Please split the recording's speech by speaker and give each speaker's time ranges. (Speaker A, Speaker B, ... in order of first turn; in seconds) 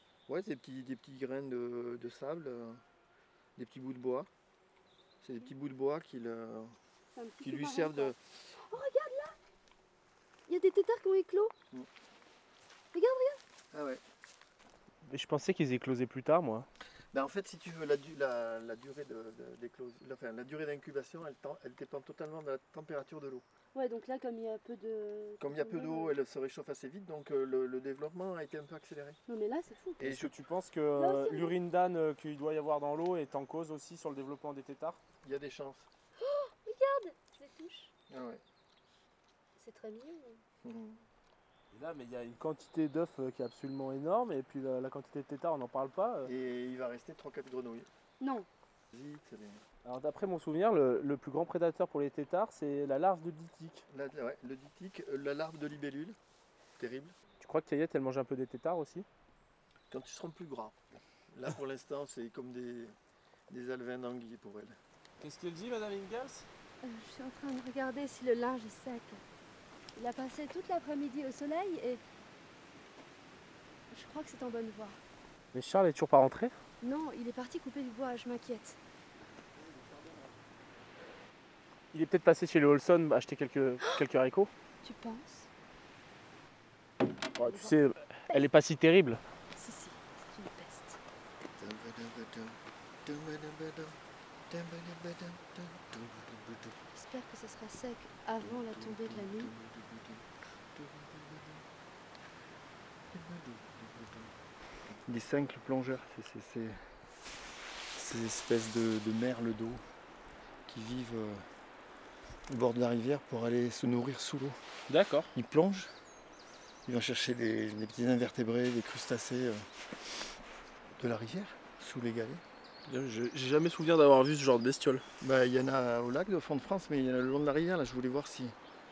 Speaker A: 0.3-2.8, 3.5-4.3, 5.2-6.7, 7.4-8.2, 13.7-14.0, 17.1-23.4, 25.4-29.2, 30.0-30.3, 35.2-35.9, 38.1-38.4, 40.6-41.0, 46.2-47.9, 48.9-49.6, 53.9-56.2, 56.8-57.1, 59.9-60.7, 61.3-63.0, 63.5-64.8, 91.5-94.0, 94.5-96.8, 98.4-101.6, 103.1-104.3, 105.1-106.8, 107.9-109.8, 110.7-111.4, 112.5-114.6, 115.3-115.9, 116.8-119.7, 121.0-122.4, 125.2-128.6
Speaker B: 7.1-9.3, 10.5-11.5, 12.9-13.4, 23.7-26.2, 29.3-30.0, 30.9-31.5, 36.2-37.9, 39.6-40.4, 48.2-48.5, 66.8-69.2, 70.0-72.0, 73.9-75.0, 76.8-78.8, 84.8-85.5, 87.4-87.8, 89.5-91.0, 96.9-99.5
Speaker C: 15.1-16.6, 30.0-35.0, 41.7-46.3, 49.8-53.8, 57.4-59.1, 65.2-66.5, 75.5-76.5, 81.9-84.5, 87.3-89.2, 114.9-115.3, 122.8-125.0